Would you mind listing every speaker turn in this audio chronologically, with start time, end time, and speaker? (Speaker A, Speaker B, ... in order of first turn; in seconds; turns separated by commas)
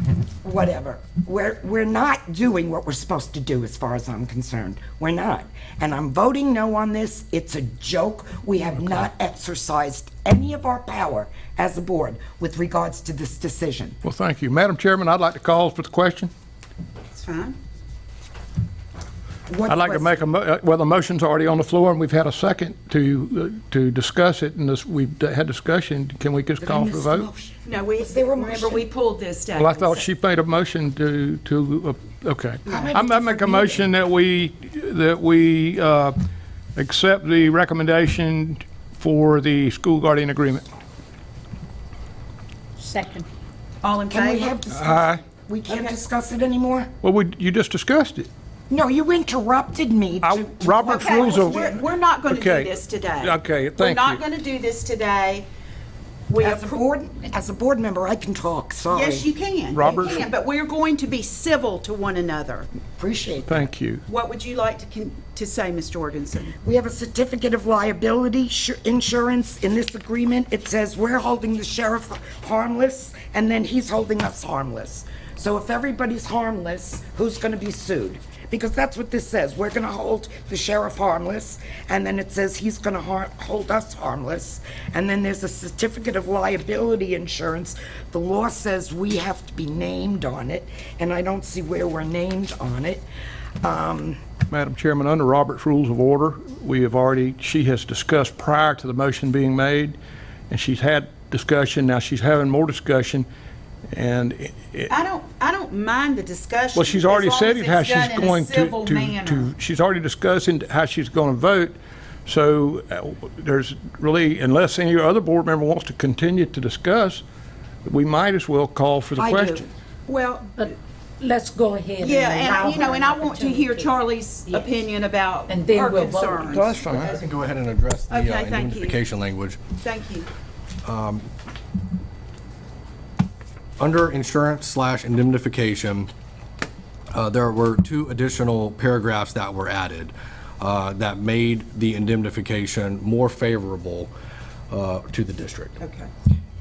Speaker A: 0.4-14.0, Speaker B: 8.8-9.1, Speaker B: 14.0-16.3, Speaker C: 17.1-17.6, Speaker A: 19.5-20.2, Speaker B: 19.7-27.3, Speaker A: 26.6-28.8, Speaker C: 27.6-30.0, Speaker B: 29.6-36.1, Speaker A: 32.6-33.9, Speaker B: 36.8-40.6, Speaker D: 42.8-43.2, Speaker C: 43.8-44.6, Speaker A: 44.1-46.9, Speaker B: 44.7-45.2, Speaker B: 47.0-48.3, Speaker A: 48.7-51.8, Speaker B: 50.2-54.2, Speaker C: 50.9-55.5, Speaker C: 56.3-56.8, Speaker A: 56.4-59.3, Speaker C: 58.9-62.7, Speaker B: 59.7-60.2, Speaker A: 62.9-63.6, Speaker B: 63.5-64.0, Speaker C: 64.1-66.5, Speaker A: 66.6-93.1, Speaker A: 93.6-94.2, Speaker B: 94.5-100.0, Speaker B: 100.5-103.3, Speaker B: 103.9-104.9, Speaker C: 104.9-109.5, Speaker B: 106.7-117.2, Speaker B: 117.8-119.7, Speaker A: 119.2-119.7, Speaker C: 120.1-120.7, Speaker D: 120.6-123.9, Speaker C: 122.0-127.2, Speaker D: 125.5-126.6, Speaker B: 126.4-127.2, Speaker E: 126.7-129.6, Speaker C: 128.1-129.0, Speaker C: 129.8-130.3, Speaker E: 130.8-131.3, Speaker E: 133.8-136.1, Speaker E: 137.1-144.1, Speaker E: 144.7-145.8, Speaker C: 145.8-146.1